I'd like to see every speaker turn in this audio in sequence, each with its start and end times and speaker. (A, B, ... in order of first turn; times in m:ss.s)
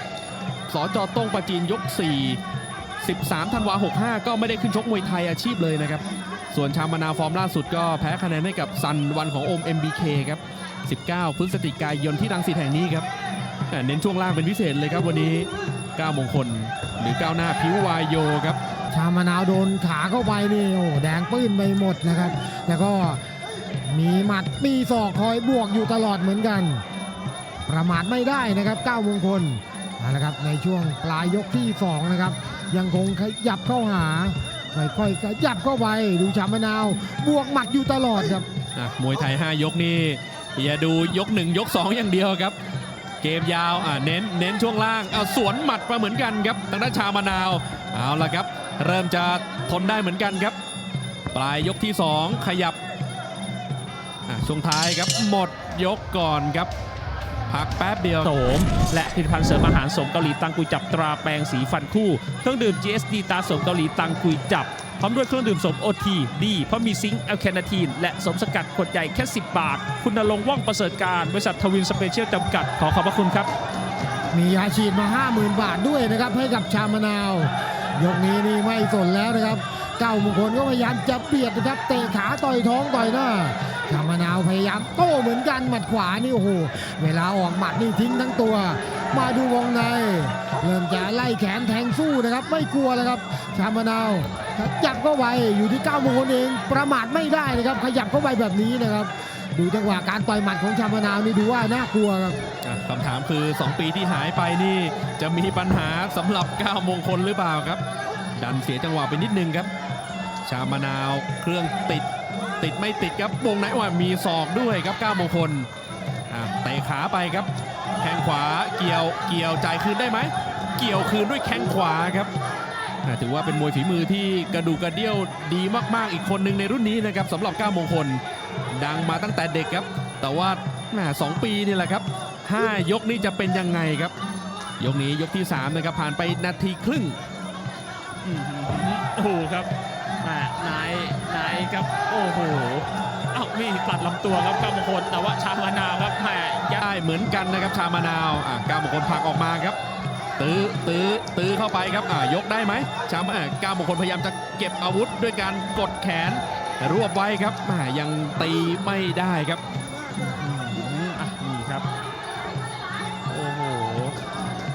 0:00.7-0:02.4 A
0:03.0-0:13.1 A
0:13.7-0:18.6 A
0:18.9-0:23.2 B
0:23.8-0:26.8 B
0:27.6-0:38.4 B
0:38.7-0:42.6 A
0:43.2-0:50.6 A
0:51.3-0:52.8 A
0:54.3-0:56.7 A
0:57.5-0:58.3 A
0:58.2-1:13.5 C
1:14.3-1:42.4 B
1:42.6-1:47.8 A
1:48.4-1:49.7 A
1:50.4-1:52.1 A
1:52.6-1:55.7 A
1:56.3-2:02.3 A
2:03.0-2:08.2 A
2:08.7-2:14.1 A
2:14.8-2:17.2 A
2:18.2-2:19.7 C
2:20.2-2:26.8 C
2:26.8-2:29.8 A
2:30.4-2:39.6 A
2:40.1-2:41.9 C
2:43.2-2:44.2 C